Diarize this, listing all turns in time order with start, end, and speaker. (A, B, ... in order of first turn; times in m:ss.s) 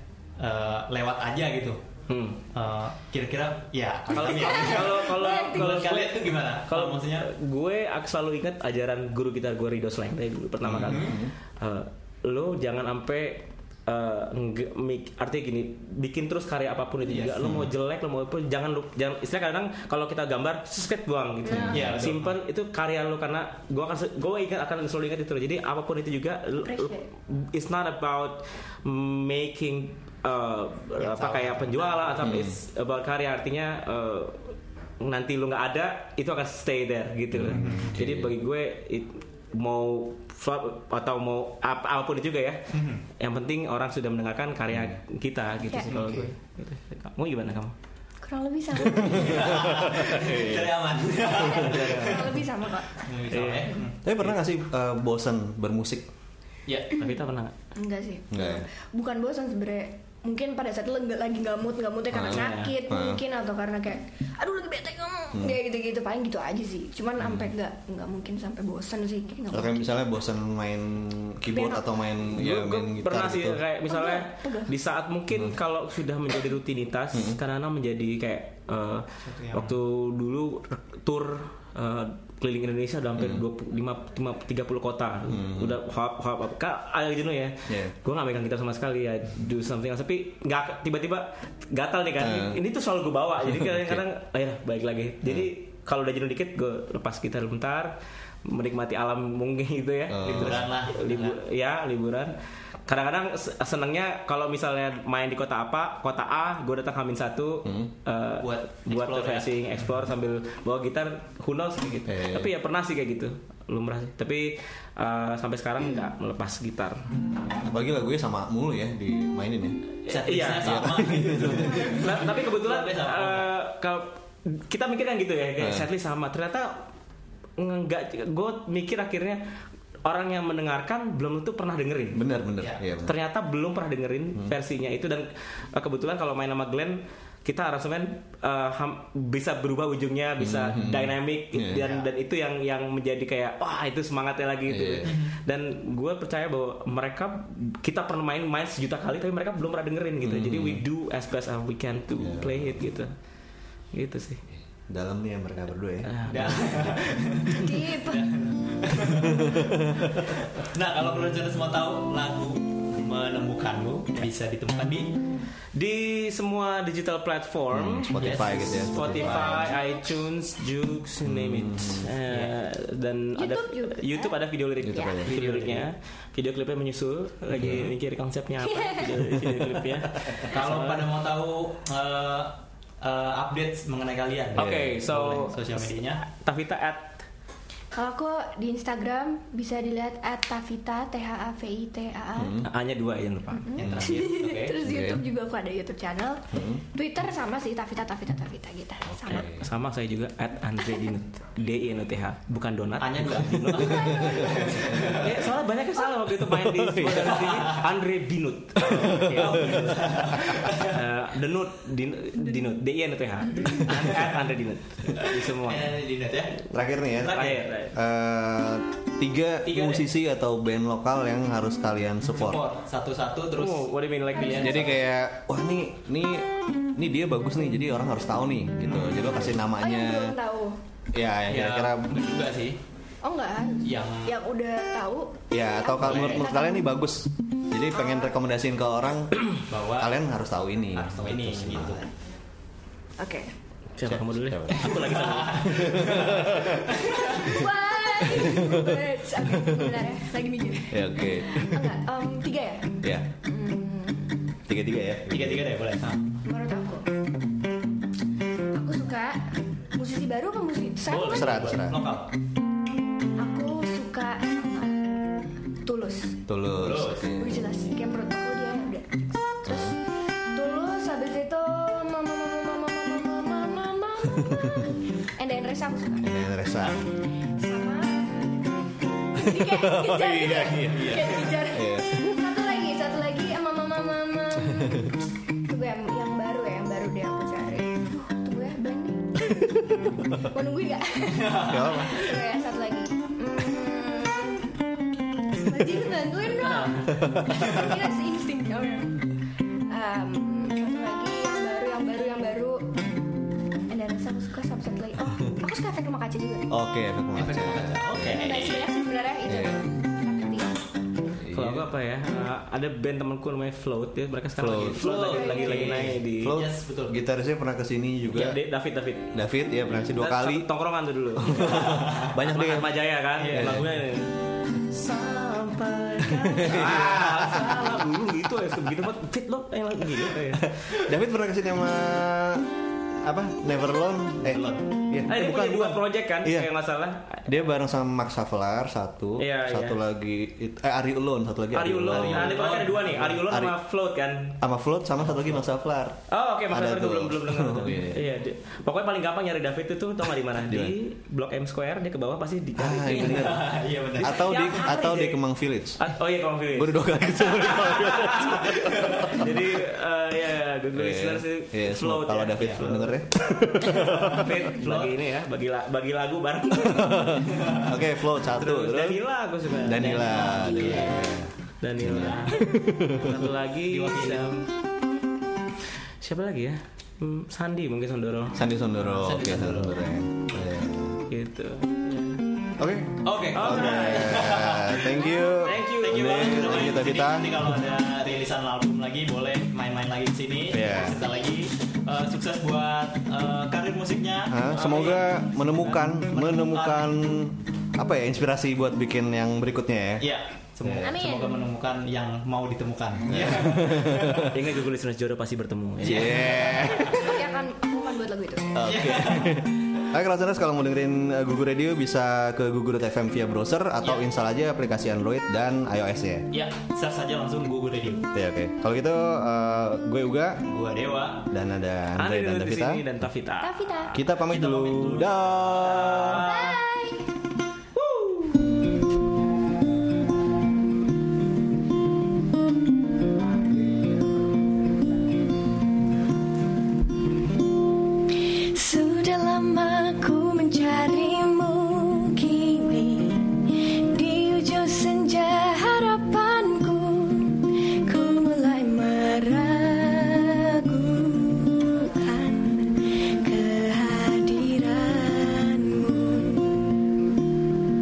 0:00.4-0:01.8 A
0:02.1-0:02.4 B
0:02.5-0:07.3 A
0:04.1-0:42.6 B
0:04.3-0:05.9 C
0:10.6-0:11.3 D
0:10.8-0:11.2 A
0:17.1-0:17.3 A
0:17.4-0:17.7 D
0:21.5-0:21.8 C
0:21.6-0:22.0 D
0:21.7-0:22.3 A
0:26.6-0:27.1 C
0:31.0-0:32.3 A
0:32.2-0:32.6 D
0:37.3-0:38.3 D
0:37.5-0:38.0 A
0:42.7-0:43.0 A
0:43.2-0:47.7 B
0:44.7-0:45.0 D
0:45.9-0:46.3 A
0:48.2-0:49.5 C
0:48.8-0:50.8 D
0:49.0-0:54.0 A
0:51.2-0:53.0 C
0:51.5-0:52.2 B
0:53.3-0:54.3 B
0:54.0-0:56.1 D
0:56.7-0:56.9 A
0:57.0-0:57.6 B
0:57.8-1:09.9 C
0:58.3-0:58.7 D
1:02.1-1:03.2 D
1:02.2-1:02.7 B
1:07.2-1:07.5 D
1:09.5-1:13.6 D
1:11.5-1:11.9 C
1:12.3-1:37.9 B
1:13.9-1:14.7 C
1:17.1-1:17.4 D
1:19.2-1:19.8 A
1:23.2-1:23.4 D
1:25.3-1:25.8 D
1:27.7-1:27.9 D
1:32.2-1:32.6 D
1:33.5-1:34.0 D
1:38.4-1:42.4 B
1:40.1-1:40.7 D
1:40.2-1:41.4 A
1:42.9-1:57.1 B
1:47.6-1:47.9 D
1:48.4-1:49.6 A
1:52.1-1:52.5 D
1:57.6-1:59.8 D
2:00.1-2:06.8 B
2:00.1-2:03.5 A
2:00.6-2:01.9 D
2:05.6-2:05.9 D
2:07.6-2:09.4 B
2:10.0-2:12.2 B
2:12.1-2:13.1 D
2:13.0-2:33.1 B
2:20.4-2:21.8 D
2:21.7-2:22.1 A
2:24.7-2:25.1 D
2:25.0-2:25.4 A
2:30.2-2:30.8 D
2:32.2-2:32.9 D
2:33.9-2:34.4 B
2:34.9-2:37.0 D
2:36.0-2:37.0 B
2:36.3-2:45.1 A
2:37.6-2:38.3 C
2:39.1-2:40.1 D
2:45.8-3:01.1 B
2:47.7-2:49.7 D
2:48.2-2:49.7 A
2:49.5-2:49.9 C
2:51.2-2:52.1 D
2:52.3-2:52.5 A
2:53.4-2:54.4 C
2:54.8-2:55.3 D
2:54.9-2:55.3 C
2:55.2-2:55.8 A
2:57.6-2:57.9 D
2:58.6-2:59.2 C
3:00.4-3:06.2 A
3:04.6-3:05.0 D
3:04.6-3:07.2 B
3:07.9-3:12.6 C
3:12.4-3:12.7 D
3:12.6-3:13.7 B
3:13.6-3:19.5 C
3:13.8-3:14.8 A
3:13.8-3:14.1 D
3:14.8-3:15.2 D
3:16.5-3:16.8 D
3:19.0-3:19.6 D
3:19.3-3:36.0 B
3:23.0-3:25.5 A
3:23.8-3:24.5 C
3:24.0-3:24.6 D
3:26.5-3:27.5 D
3:27.0-3:27.8 A
3:28.8-3:31.0 A
3:29.2-3:29.8 D
3:35.4-3:36.6 A
3:36.7-3:42.6 D
3:37.2-3:37.6 A
3:37.2-3:38.0 B
3:39.7-3:40.1 A
3:42.3-3:45.0 A
3:43.6-3:44.9 B
3:44.4-3:44.7 C
3:44.4-3:50.4 D
3:48.9-3:49.4 A
3:49.4-3:50.8 C
3:51.1-3:52.2 D
3:51.5-3:52.8 A
3:53.2-3:56.9 C
3:53.8-3:54.4 A
3:55.5-4:02.0 D
3:56.0-3:56.5 A
3:57.9-3:58.4 C
3:59.7-4:00.2 A
4:00.9-4:02.0 A
4:03.2-4:03.5 C
4:04.0-4:06.2 B
4:04.1-4:07.0 D
4:04.8-4:07.6 A
4:07.0-4:14.4 C
4:08.2-4:10.0 D
4:10.9-4:12.0 D
4:13.0-4:13.3 D
4:14.7-4:15.7 D
4:15.3-4:16.2 A
4:16.4-4:17.1 C
4:18.7-4:21.6 C
4:21.1-4:22.3 A
4:21.2-4:22.0 D
4:23.4-4:25.0 C
4:25.8-4:26.4 C
4:26.5-4:27.6 D
4:26.8-4:27.3 A
4:27.3-4:30.0 C
4:29.7-4:30.0 D
4:30.5-4:36.4 C
4:36.2-4:37.1 D
4:37.6-4:38.6 C
4:39.3-4:45.1 C
4:39.4-4:42.2 D
4:40.8-4:41.4 A
4:44.7-4:45.1 D
4:45.7-4:49.8 C
4:50.3-4:54.8 C
4:51.3-4:52.4 A
4:51.6-4:52.3 D
4:55.6-4:59.2 C
4:56.6-4:57.2 B
4:57.2-4:57.9 D
4:57.5-4:58.0 A
4:59.9-5:03.0 C
5:03.9-5:06.7 C
5:06.7-5:08.4 D
5:07.4-5:08.9 A
5:08.3-5:10.8 C
5:09.5-5:09.8 D
5:11.4-5:11.9 D
5:11.5-5:16.6 B
5:14.6-5:15.2 D
5:14.9-5:17.2 A
5:15.2-5:16.0 C
5:16.0-5:18.6 D
5:18.3-5:19.4 B
5:19.3-5:20.7 D
5:20.2-5:30.8 B
5:21.4-5:23.9 D
5:21.6-5:22.4 A
5:23.4-5:23.8 A
5:26.2-5:27.9 D
5:26.8-5:27.1 A
5:30.9-5:32.7 D
5:33.2-5:36.7 D
5:34.5-5:34.8 A
5:35.3-5:37.5 B
5:37.5-5:42.5 D
5:39.4-5:40.0 B
5:41.7-5:44.6 B
5:42.1-5:43.4 A
5:43.5-5:43.8 D
5:44.6-5:48.3 D
5:45.2-5:45.6 A
5:46.3-5:53.6 B
5:50.6-5:51.0 D
5:52.8-5:56.0 D
5:53.1-5:54.7 A
5:54.2-6:03.2 B
5:56.7-5:59.5 D
5:58.8-5:59.4 A
6:00.9-6:04.4 D
6:04.0-6:05.1 A
6:04.2-6:07.4 B
6:06.8-6:13.3 D
6:07.4-6:08.0 A
6:08.6-6:11.1 B
6:10.0-6:11.2 A
6:10.5-6:11.2 C
6:11.8-6:14.7 B
6:12.1-6:12.4 A
6:13.2-6:14.5 A
6:16.2-6:18.6 B
6:18.5-6:21.2 D
6:19.0-6:20.0 A
6:21.3-6:22.4 B
6:22.8-6:27.6 D
6:23.2-6:25.4 A
6:23.5-6:24.5 B
6:25.3-6:27.2 B
6:26.0-6:37.2 A
6:30.7-6:31.2 D
6:34.5-6:40.3 D
6:34.7-6:35.3 B
6:40.2-6:44.5 A
6:40.8-6:41.1 D
6:41.0-6:41.7 C
6:43.3-6:44.7 D
6:44.3-6:46.7 B
6:46.0-6:47.3 A
6:46.0-6:47.4 D
6:46.4-6:48.8 C
6:48.7-6:56.5 D
6:48.8-6:49.7 A
6:54.0-6:54.3 A
6:56.5-6:58.3 A
6:58.3-7:00.6 D
7:00.7-7:01.5 A
7:01.5-7:03.0 D
7:02.2-7:04.4 B
7:03.6-7:04.1 C
7:04.1-7:06.4 D
7:04.4-7:06.8 A
7:05.7-7:06.8 B
7:06.5-7:07.3 C
7:08.0-7:08.6 B
7:18.7-7:36.9 C